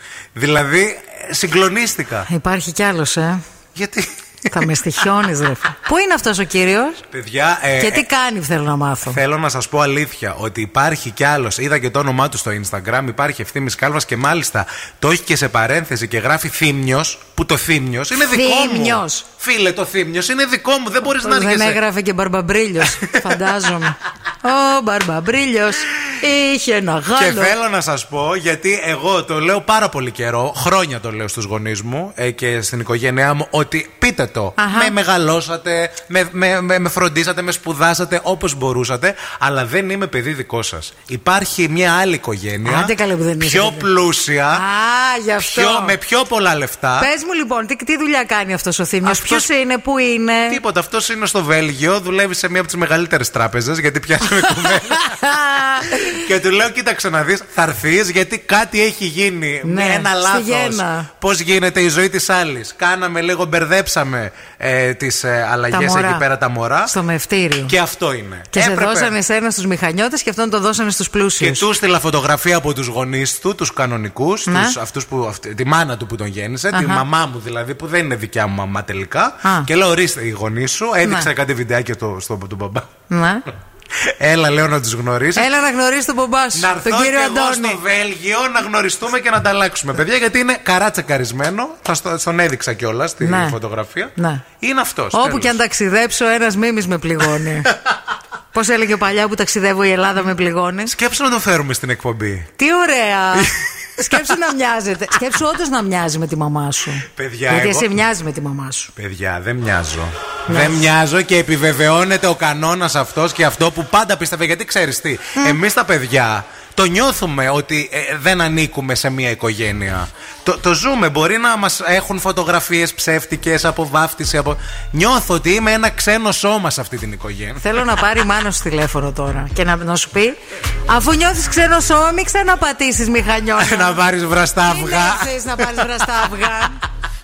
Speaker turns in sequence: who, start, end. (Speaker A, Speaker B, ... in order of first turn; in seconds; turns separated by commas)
Speaker A: 0.3-2.3, Speaker B: 2.3-3.4, Speaker A: 3.7-4.7, Speaker B: 4.5-7.0, Speaker A: 7.1-8.0, Speaker B: 7.8-9.2, Speaker A: 9.0-21.8, Speaker B: 18.2-19.3, Speaker B: 21.2-27.5, Speaker A: 22.9-23.5, Speaker A: 27.1-44.6, Speaker B: 34.6-34.9, Speaker B: 42.6-43.9, Speaker B: 44.5-46.0, Speaker A: 45.4-47.1, Speaker B: 47.0-50.6, Speaker A: 49.0-49.5, Speaker A: 50.5-66.9, Speaker B: 54.4-56.2, Speaker B: 59.6-61.1, Speaker B: 65.7-66.2, Speaker B: 66.8-67.7, Speaker A: 67.7-69.1, Speaker B: 68.5-71.7, Speaker A: 71.4-82.9, Speaker B: 74.5-74.8, Speaker B: 76.7-77.0, Speaker B: 83.1-83.5, Speaker A: 84.0-85.5, Speaker B: 85.3-87.8, Speaker A: 86.5-95.6, Speaker B: 93.2-93.6, Speaker B: 94.2-94.4, Speaker B: 95.1-97.7, Speaker B: 98.5-100.9, Speaker A: 100.9-102.5, Speaker B: 102.6-108.9, Speaker A: 103.3-104.3, Speaker A: 107.1-107.9, Speaker A: 108.9-127.6, Speaker B: 110.5-110.8, Speaker B: 127.6-134.0, Speaker A: 133.6-136.0, Speaker B: 134.6-136.8